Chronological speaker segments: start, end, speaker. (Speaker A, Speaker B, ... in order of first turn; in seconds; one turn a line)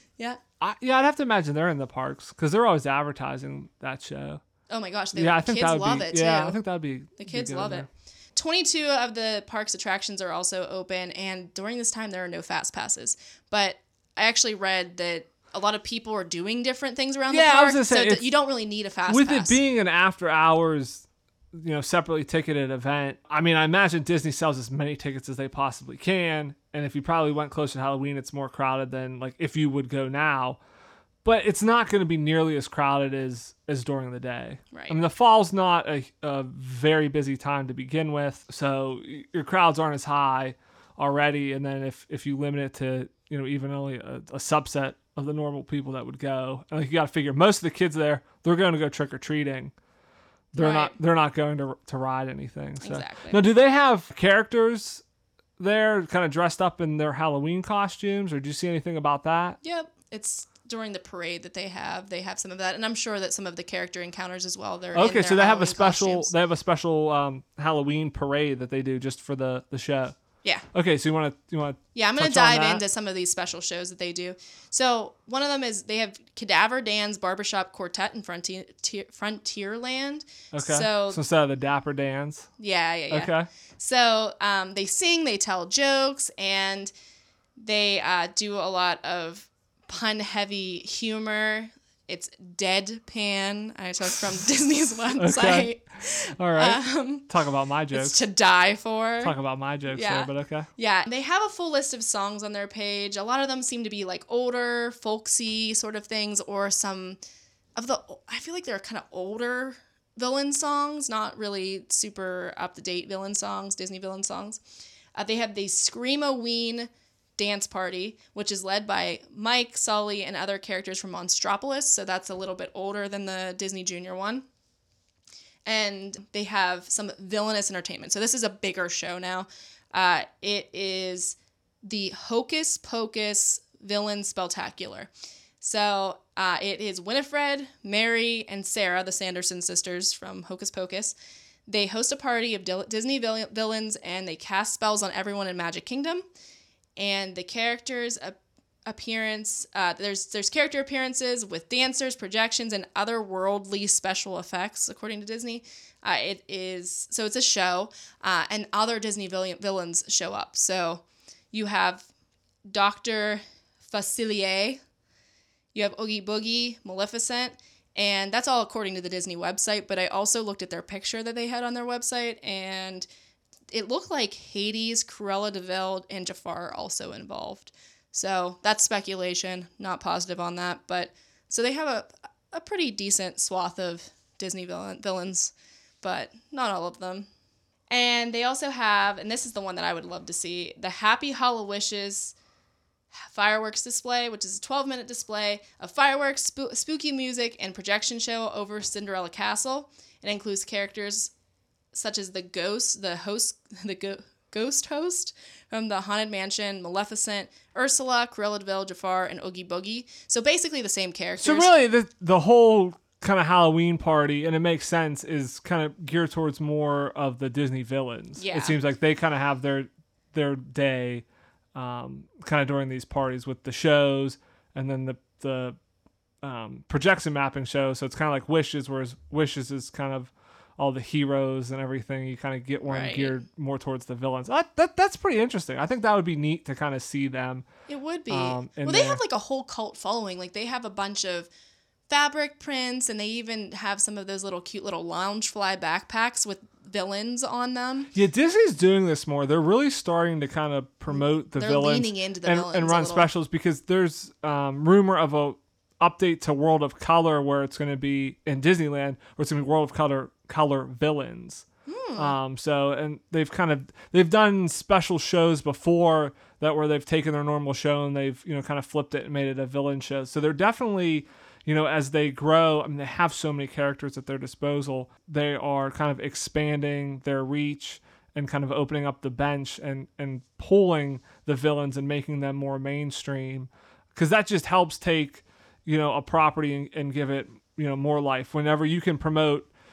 Speaker A: 0.6-4.4
Speaker B: 4.7-6.6
Speaker A: 5.2-7.9
Speaker B: 7.2-19.6
Speaker A: 17.3-18.3
Speaker A: 19.1-30.6
Speaker A: 31.2-49.7
Speaker B: 34.7-35.0
Speaker A: 50.5-55.0
Speaker B: 50.6-50.9
Speaker B: 52.8-53.4
Speaker A: 55.6-59.6
Speaker B: 59.6-66.3
Speaker A: 64.9-70.2
Speaker A: 70.7-72.8
Speaker B: 71.9-81.2
Speaker A: 80.5-82.5
Speaker B: 82.6-86.9
Speaker A: 83.1-83.5
Speaker B: 87.6-97.3
Speaker A: 95.2-98.2
Speaker B: 97.9-99.3
Speaker A: 99.2-100.7
Speaker B: 99.9-107.2
Speaker B: 107.8-114.6
Speaker B: 115.1-124.4
Speaker B: 125.7-135.1
Speaker B: 135.6-141.1
Speaker B: 141.7-146.2
Speaker B: 147.0-162.1
Speaker B: 162.7-164.8
Speaker B: 165.7-173.1
Speaker B: 173.7-187.3
Speaker B: 187.9-192.3
Speaker B: 193.1-201.3
Speaker B: 201.9-211.7
Speaker A: 211.4-225.8
Speaker B: 218.4-218.8
Speaker A: 226.4-237.6
Speaker B: 232.9-233.3
Speaker B: 237.9-241.5
Speaker A: 238.3-239.2
Speaker B: 242.1-248.1
Speaker A: 248.1-261.6
Speaker B: 251.1-253.3
Speaker B: 261.9-262.3
Speaker A: 262.1-289.7